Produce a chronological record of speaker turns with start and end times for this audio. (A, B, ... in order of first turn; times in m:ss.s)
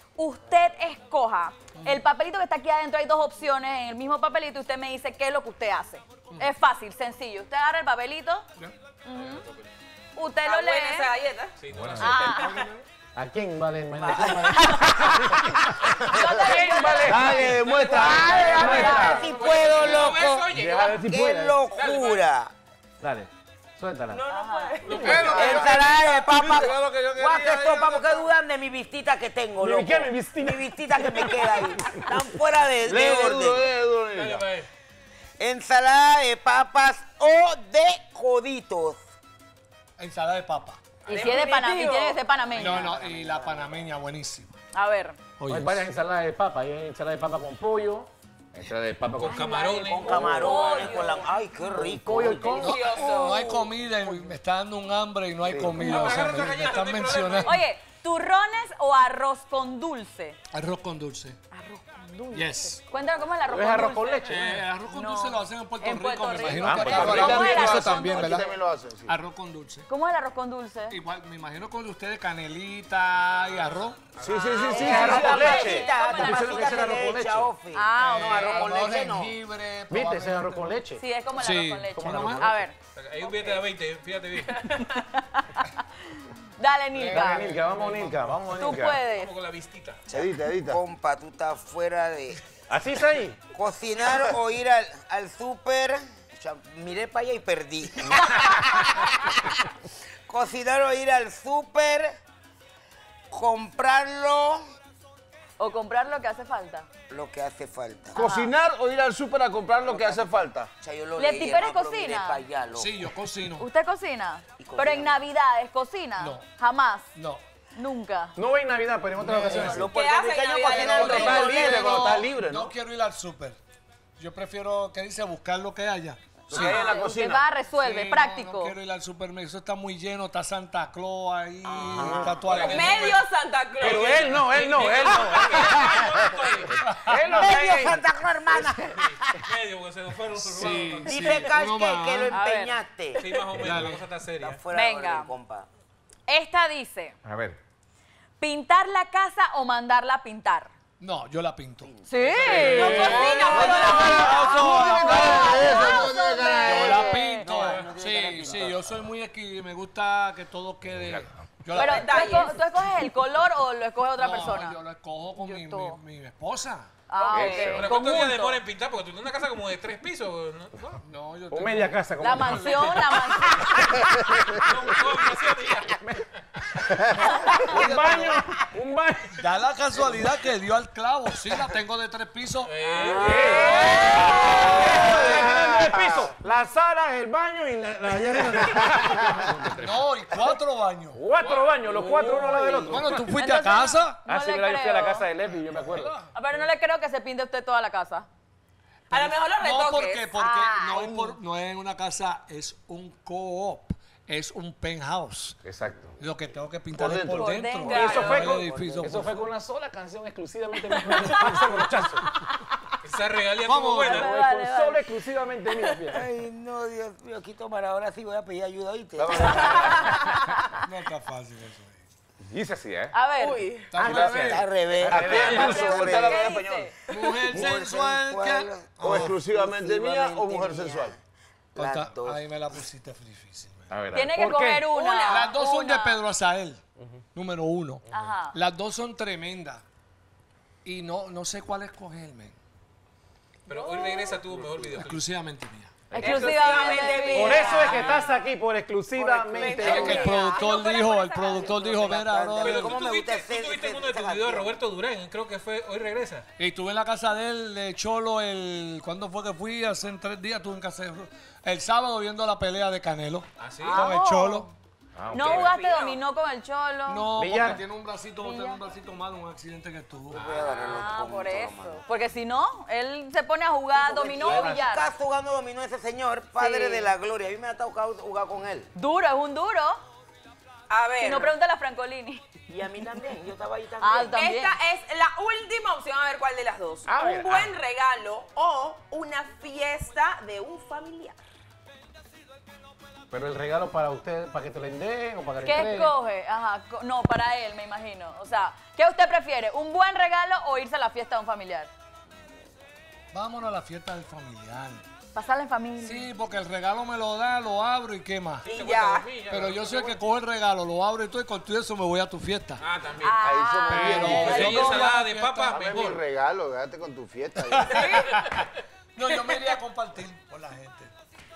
0:00.2-0:08.4 A
0:09.0-0:09.4 A
0:09.1-0:09.7 B
0:10.2-0:11.1 A
0:10.4-0:11.5 C
0:11.6-0:12.5 B
0:12.0-0:12.5 A
0:12.4-0:12.8 D
0:13.2-0:15.5 E
0:14.0-0:14.8 F
0:16.1-0:19.2 A
0:16.2-0:17.3 C
0:16.4-0:17.6 E
0:17.1-0:19.2 G
0:17.7-0:21.0 B
0:17.7-0:22.5 F
0:18.4-0:19.3 E
0:20.5-0:21.6 E
0:21.7-0:22.2 B
0:23.0-0:24.2 E
0:24.1-0:25.5 C
0:24.3-0:24.8 A
0:24.8-0:25.6 B
0:25.0-0:25.5 E
0:25.1-0:28.2 G
0:25.2-0:33.7 F
0:29.6-0:32.0 E
0:32.8-0:34.4 G
0:34.1-0:34.7 B
0:35.4-0:39.0 F
0:40.0-0:40.8 D
0:41.1-0:42.2 C
0:41.1-0:43.0 A
0:42.6-0:44.6 D
0:42.6-0:43.3 E
0:44.7-0:45.2 A
0:45.4-0:45.9 D
0:45.4-0:50.5 E
0:49.2-0:50.4 B
0:49.7-0:52.6 F
0:50.4-0:51.2 A
0:51.7-0:52.9 E
0:52.6-0:53.6 C
0:52.6-0:57.6 D
0:55.4-0:56.0 E
0:55.7-0:57.6 B
0:57.4-1:00.4 A
1:00.5-1:01.4 D
1:01.5-1:04.4 A
1:02.3-1:02.8 D
1:03.5-1:04.5 E
1:04.3-1:04.7 B
1:04.3-1:08.5 D
1:04.9-1:08.4 A
1:06.6-1:09.1 G
1:09.1-1:09.8 D
1:09.9-1:11.0 A
1:10.9-1:14.1 D
1:14.2-1:15.0 B
1:14.2-1:15.8 G
1:14.6-1:17.2 A
1:14.7-1:19.3 F
1:14.8-1:17.5 E
1:17.7-1:18.9 A
1:18.5-1:20.8 D
1:19.9-1:21.0 E
1:21.0-1:22.8 A
1:21.4-1:22.5 D
1:21.9-1:22.6 E
1:23.0-1:24.8 B
1:24.6-1:25.7 A
1:26.6-1:27.6 A
1:27.1-1:28.1 B
1:27.1-1:29.0 E
1:27.1-1:28.0 D
1:28.5-1:29.3 A
1:29.0-1:30.0 B
1:30.1-1:30.8 G
1:30.1-1:32.4 F
1:32.7-1:33.4 E
1:33.5-1:39.5 F
1:40.3-1:42.1 F
1:43.3-1:44.6 F
1:45.6-1:46.8 A
1:47.1-1:48.3 F
1:48.1-1:48.5 A
1:48.2-1:50.7 G
1:49.9-1:50.2 F
1:50.8-1:52.9 F
1:51.2-1:52.4 A
1:52.8-1:53.6 D
1:53.6-1:57.1 A
1:54.6-1:55.2 F
1:56.2-1:56.4 D
1:57.1-1:57.4 D
1:57.8-1:58.3 A
1:58.4-1:59.9 E
1:59.2-1:59.8 D
1:59.4-2:02.0 F
1:59.8-2:01.6 C
2:00.7-2:02.2 A
2:00.7-2:03.6 D
2:00.8-2:02.7 E
2:04.2-2:07.0 D
2:06.5-2:07.4 E
2:06.5-2:08.8 A
2:07.7-2:13.2 D
2:11.6-2:13.2 B
2:11.9-2:12.8 E
2:12.6-2:14.4 C
2:13.8-2:16.5 E
2:13.8-2:16.8 B
2:16.8-2:17.1 D
2:17.0-2:18.0 E
2:17.2-2:19.4 F
2:18.9-2:21.5 B
2:20.4-2:22.3 D
2:21.1-2:23.2 F
2:22.3-2:22.8 A
2:23.2-2:24.6 B
2:23.6-2:24.0 D
2:24.4-2:25.7 F
2:24.7-2:25.3 A
2:26.3-2:27.1 A
2:27.2-2:27.6 E
2:28.4-2:30.7 A
2:31.0-2:31.9 D
2:31.9-2:32.8 F
2:32.1-2:37.8 A
2:32.4-2:33.6 D
2:32.7-2:34.5 C
2:34.1-2:38.7 F
2:34.2-2:36.9 G
2:36.7-2:42.2 D
2:37.5-2:37.9 B
2:41.7-2:42.6 C
2:41.7-2:44.8 A
2:44.2-2:47.0 D
2:45.4-2:46.0 A
2:47.1-2:48.6 A
2:47.2-2:47.9 C
2:47.3-2:47.9 E
2:47.7-2:51.0 B
2:51.0-2:51.9 D
2:51.5-2:53.0 E
2:52.2-2:54.1 A
2:52.5-2:53.9 B
2:54.6-2:56.0 B
2:56.8-2:59.4 E
2:57.8-2:58.3 D
2:59.4-3:02.7 D
3:02.6-3:05.5 B
3:03.0-3:04.8 A
3:03.1-3:10.0 E
3:05.1-3:05.5 D
3:05.4-3:06.2 G
3:09.7-3:11.2 D
3:11.1-3:13.3 E
3:11.4-3:13.0 B
3:12.9-3:14.2 D
3:13.3-3:15.2 A
3:14.2-3:16.1 E
3:15.8-3:16.2 D
3:16.3-3:18.3 A
3:19.1-3:20.3 C
3:19.1-3:25.6 D
3:20.4-3:21.2 A
3:25.6-3:26.1 E
3:26.2-3:29.4 D
3:27.0-3:27.5 G
3:27.3-3:28.5 A
3:27.8-3:28.6 C
3:27.8-3:32.3 E
3:33.0-3:34.3 B
3:33.6-3:34.2 D
3:34.0-3:35.0 A
3:34.1-3:36.2 E
3:36.1-3:39.8 F
3:39.2-3:40.1 G
3:39.5-3:39.9 E
3:39.7-3:40.5 A
3:40.8-3:42.0 D
3:42.5-3:43.1 E
3:43.1-3:43.7 A
3:43.4-3:44.0 C
3:43.9-3:44.7 D
3:44.0-3:46.6 F
3:44.0-3:46.6 E
3:45.1-3:46.7 G
3:45.3-3:46.9 A
3:47.1-3:49.4 D
3:47.5-3:51.1 F
3:49.0-3:51.1 G
3:51.7-3:52.4 F
3:51.8-3:53.9 D
3:53.9-3:54.9 E
3:54.1-3:56.2 A
3:54.9-3:55.5 C
3:55.2-3:56.8 D
3:57.3-3:59.8 D
3:58.1-3:58.6 A
4:00.8-4:02.6 D
4:03.7-4:05.3 B
4:05.0-4:06.0 D
4:06.1-4:06.5 E
4:06.1-4:08.2 A
4:06.2-4:08.0 C
4:07.3-4:10.4 E
4:09.2-4:11.9 C
4:09.6-4:11.7 A
4:09.8-4:13.0 D
4:11.9-4:14.8 F
4:12.6-4:16.4 B
4:16.6-4:24.7 D
4:23.6-4:24.1 B
4:23.9-4:24.7 A
4:25.2-4:25.7 E
4:25.3-4:27.3 A
4:25.3-4:26.2 C
4:27.1-4:30.4 D
4:27.4-4:27.8 E
4:28.4-4:28.8 A
4:30.3-4:31.0 B
4:30.3-4:32.0 F
4:30.6-4:35.1 A
4:33.9-4:38.9 F
4:36.6-4:37.1 A
4:38.9-4:40.0 A
4:40.9-4:41.5 C
4:41.2-4:42.4 A
4:42.7-4:44.4 F
4:44.0-4:44.7 A
4:44.3-4:51.4 C
4:47.1-4:47.7 E
4:53.3-4:56.1 E
4:55.6-5:01.9 A
5:03.3-5:05.0 D
5:05.3-5:06.3 A
5:06.0-5:08.7 D
5:08.6-5:10.1 B
5:08.7-5:09.3 C
5:09.5-5:12.8 D
5:12.8-5:16.2 B
5:13.2-5:15.1 A
5:13.4-5:14.9 G
5:13.9-5:16.0 D
5:15.7-5:18.2 G
5:17.7-5:21.1 D
5:17.9-5:18.3 C